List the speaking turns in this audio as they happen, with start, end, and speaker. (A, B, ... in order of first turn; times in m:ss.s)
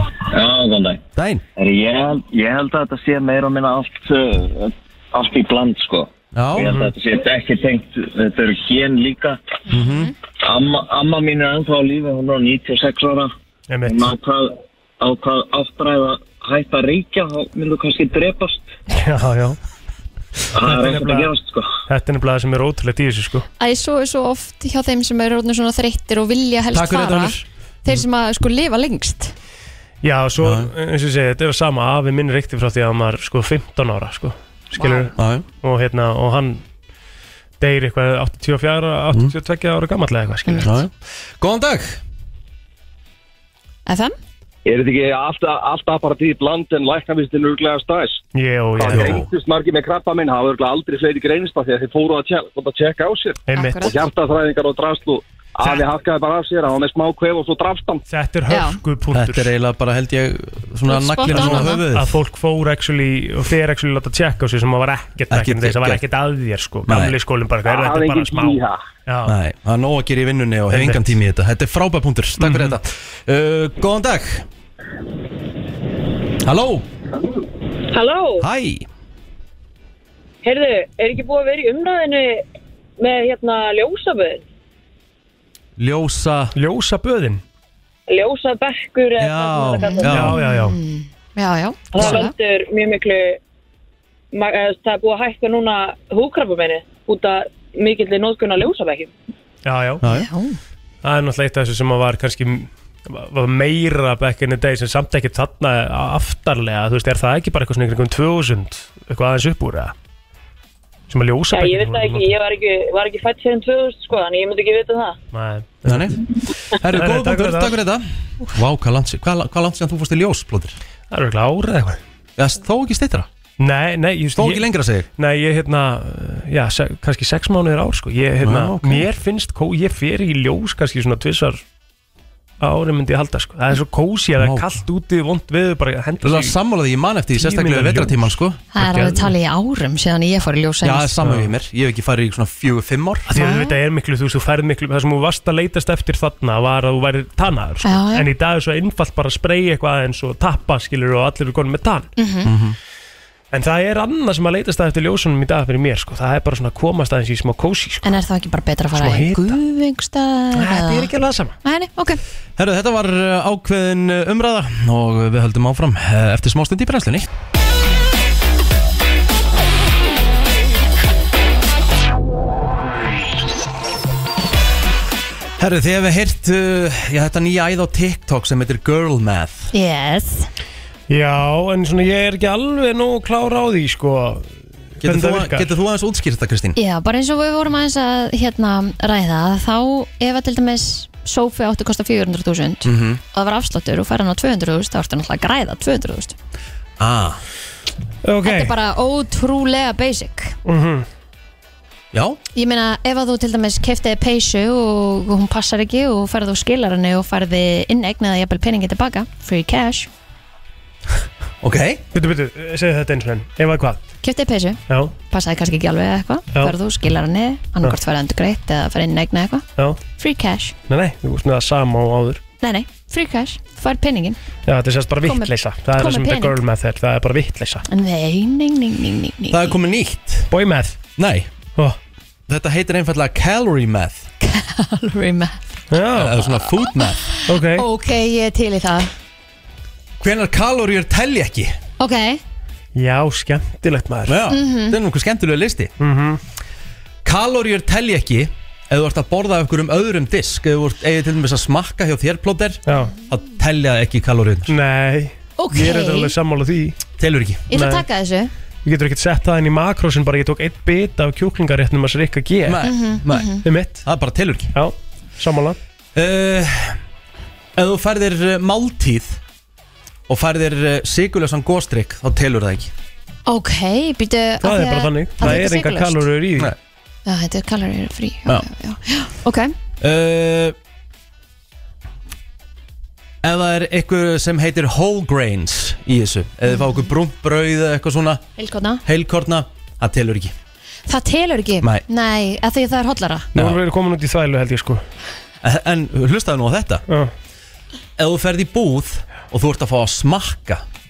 0:00.3-0:01.0 A
0:01.2-0:01.4 B
0:01.6-0:09.4 A
0:06.3-0:06.9 B
0:09.7-0:10.1 B
0:10.4-0:13.3 A
0:13.7-0:14.1 C
0:13.8-0:18.7 A
0:18.9-0:19.6 C
0:20.5-0:21.7 A
0:20.6-0:21.3 C
0:21.9-0:23.5 C
0:23.6-0:29.3 D
0:26.7-0:27.4 B
0:30.0-0:36.6 C
0:30.4-0:30.7 B
0:34.8-0:35.1 D
0:35.2-0:35.4 B
0:37.6-0:40.8 C
0:40.5-0:40.7 D
0:40.6-0:42.0 B
0:43.9-0:44.2 D
0:44.7-0:48.1 E
0:48.4-0:49.2 C
0:48.8-0:53.3 E
0:48.9-0:49.3 B
0:53.5-0:53.9 C
0:53.5-0:54.0 D
0:54.0-0:58.0 E
0:58.1-0:59.5 C
0:58.5-0:58.8 D
0:59.1-1:02.2 B
1:00.9-1:01.8 D
1:01.3-1:09.4 C
1:05.3-1:06.0 B
1:06.9-1:07.2 B
1:07.7-1:08.8 E
1:09.2-1:14.5 B
1:10.7-1:11.2 C
1:12.4-1:12.8 C
1:16.4-1:16.9 B
1:17.9-1:18.5 F
1:18.4-1:18.9 B
1:20.4-1:22.4 F
1:23.0-1:24.4 F
1:25.8-1:26.6 B
1:26.6-1:27.4 C
1:28.1-1:30.3 F
1:29.2-1:30.4 B
1:29.8-1:32.3 D
1:30.1-1:30.8 C
1:31.9-1:33.4 F
1:32.0-1:32.2 C
1:34.3-1:39.1 F
1:39.6-1:40.0 C
1:40.0-1:40.3 B
1:40.1-1:40.6 D
1:41.0-1:49.9 C
1:51.1-1:52.3 C
1:51.5-1:55.2 F
1:55.3-1:56.2 C
1:55.9-2:00.8 B
1:56.8-1:57.8 C
2:01.1-2:02.0 C
2:02.4-2:03.3 B
2:03.6-2:04.7 C
2:04.4-2:05.1 B
2:05.2-2:11.6 C
2:08.4-2:09.1 B
2:12.6-2:16.6 C
2:14.4-2:14.6 B
2:16.2-2:18.6 B
2:17.4-2:19.3 C
2:18.7-2:21.2 D
2:20.8-2:23.3 B
2:21.2-2:21.5 C
2:23.3-2:32.1 C
2:23.4-2:23.8 D
2:27.8-2:28.3 D
2:32.2-2:32.5 D
2:32.4-2:32.8 B
2:33.5-2:38.1 C
2:38.0-2:41.1 D
2:39.0-2:39.6 C
2:40.5-2:41.6 C
2:41.6-2:42.2 D
2:42.6-2:47.3 B
2:55.6-2:59.7 B
2:59.7-3:00.5 D
3:01.1-3:04.5 C
3:05.0-3:06.8 B
3:05.0-3:05.7 C
3:06.8-3:16.4 D
3:12.8-3:13.2 B
3:17.0-3:17.4 B
3:18.2-3:18.7 C
3:18.4-3:20.6 D
3:20.6-3:21.1 C
3:22.1-3:22.4 B
3:22.6-3:30.1 D
3:31.6-3:32.0 B
3:32.1-3:34.0 C
3:34.2-3:39.7 D
3:40.2-3:40.7 D
3:40.9-3:42.4 C
3:42.6-3:44.4 D
3:44.7-3:47.8 C
3:45.2-3:46.6 D
3:47.9-3:49.8 D
3:49.5-3:50.5 B
3:50.5-3:51.0 C
3:51.2-3:51.5 B
3:52.5-3:54.3 B
3:54.4-3:55.6 D
3:55.9-3:56.4 C
3:56.1-3:57.2 B
3:56.8-3:59.1 D
3:57.5-3:57.8 C
4:00.2-4:01.8 B
4:02.0-4:02.4 D
4:03.0-4:04.4 C
4:04.3-4:05.9 B
4:04.5-4:05.0 D
4:06.0-4:06.4 C
4:07.2-4:14.7 B
4:12.9-4:13.1 C
4:14.7-4:17.0 C
4:15.6-4:16.3 D
4:17.2-4:17.6 B
4:17.7-4:18.5 D
4:17.7-4:18.0 C
4:18.8-4:22.8 C
4:22.7-4:24.7 B
4:22.8-4:23.6 D
4:23.6-4:24.1 C
4:24.7-4:25.8 C
4:26.2-4:27.0 B
4:27.8-4:29.4 B
4:30.3-4:32.9 B
4:33.5-4:36.3 D
4:34.6-4:36.7 C
4:37.3-4:39.7 D
4:40.0-4:40.8 B
4:43.4-4:48.4 B
4:46.7-4:47.1 D
4:48.6-4:49.0 D
4:49.0-4:50.5 B
4:51.1-4:53.5 D
4:53.6-4:55.0 C
4:55.6-4:57.0 B
4:58.2-5:00.8 B